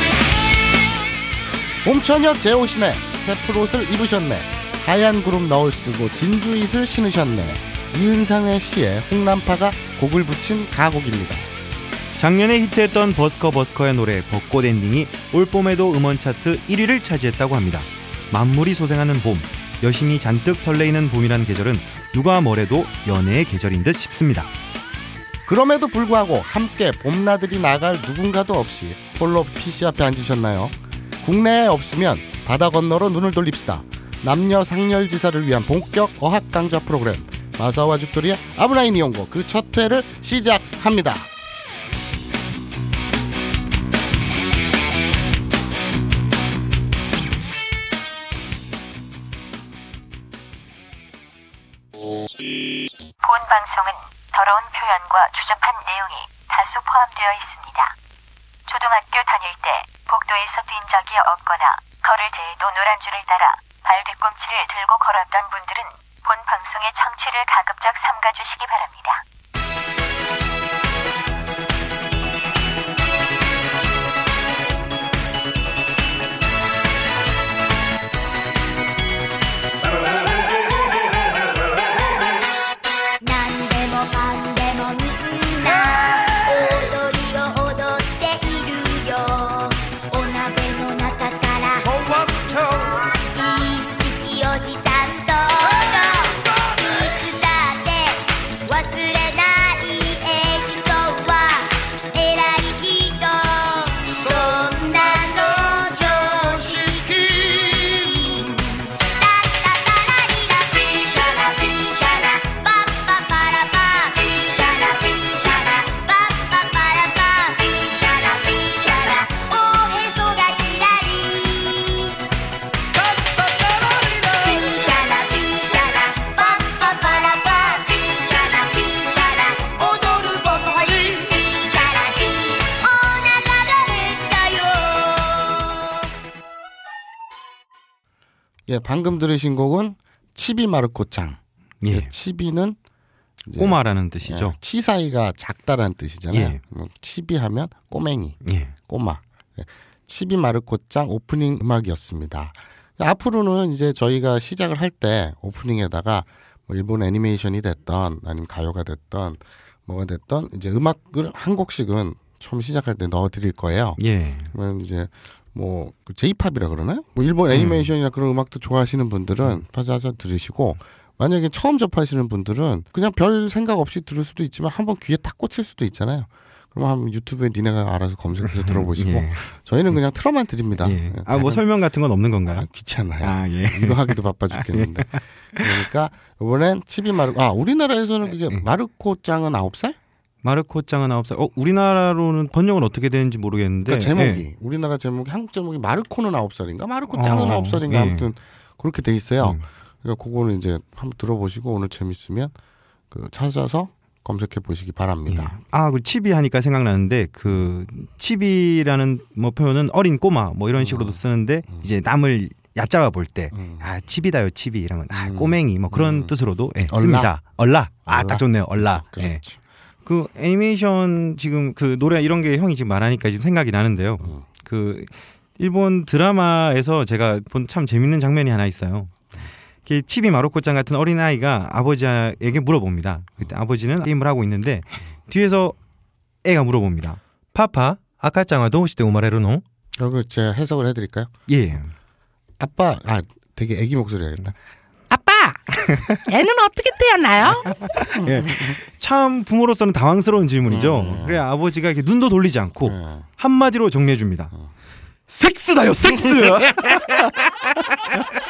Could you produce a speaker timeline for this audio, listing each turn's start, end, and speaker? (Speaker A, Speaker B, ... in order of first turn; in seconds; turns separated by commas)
Speaker A: 1.8-11.5, Speaker B: 12.2-24.5, Speaker A: 25.4-41.3, Speaker C: 53.2-57.9, Speaker C: 58.6-69.2, Speaker D: 83.2-122.2, Speaker D: 123.4-136.0, Speaker A: 138.7-142.8, Speaker B: 141.8-142.1, Speaker A: 143.4-164.0, Speaker B: 143.6-144.6, Speaker B: 146.3-146.6, Speaker B: 148.4-148.7, Speaker B: 164.0-164.5, Speaker A: 164.5-181.6, Speaker B: 167.5-167.9, Speaker B: 178.4-179.5, Speaker B: 180.8-182.7, Speaker A: 182.5-190.0, Speaker B: 183.2-185.7, Speaker B: 190.4-194.4, Speaker A: 193.9-202.5, Speaker B: 197.1-198.3, Speaker A: 203.1-205.6, Speaker B: 205.3-219.4, Speaker A: 210.8-211.9, Speaker A: 213.5-213.9, Speaker A: 215.1-216.3, Speaker A: 216.9-217.3, Speaker A: 218.1-219.6, Speaker B: 220.0-229.1, Speaker B: 229.8-235.8, Speaker B: 236.4-239.6, Speaker A: 240.0-241.3, Speaker B: 241.5-241.9, Speaker A: 242.6-244.6, Speaker A: 245.1-245.7, Speaker B: 245.8-246.3, Speaker A: 246.2-248.8, Speaker B: 247.4-254.5, Speaker A: 250.7-251.4, Speaker A: 252.8-253.3, Speaker B: 255.3-258.3, Speaker A: 256.1-257.3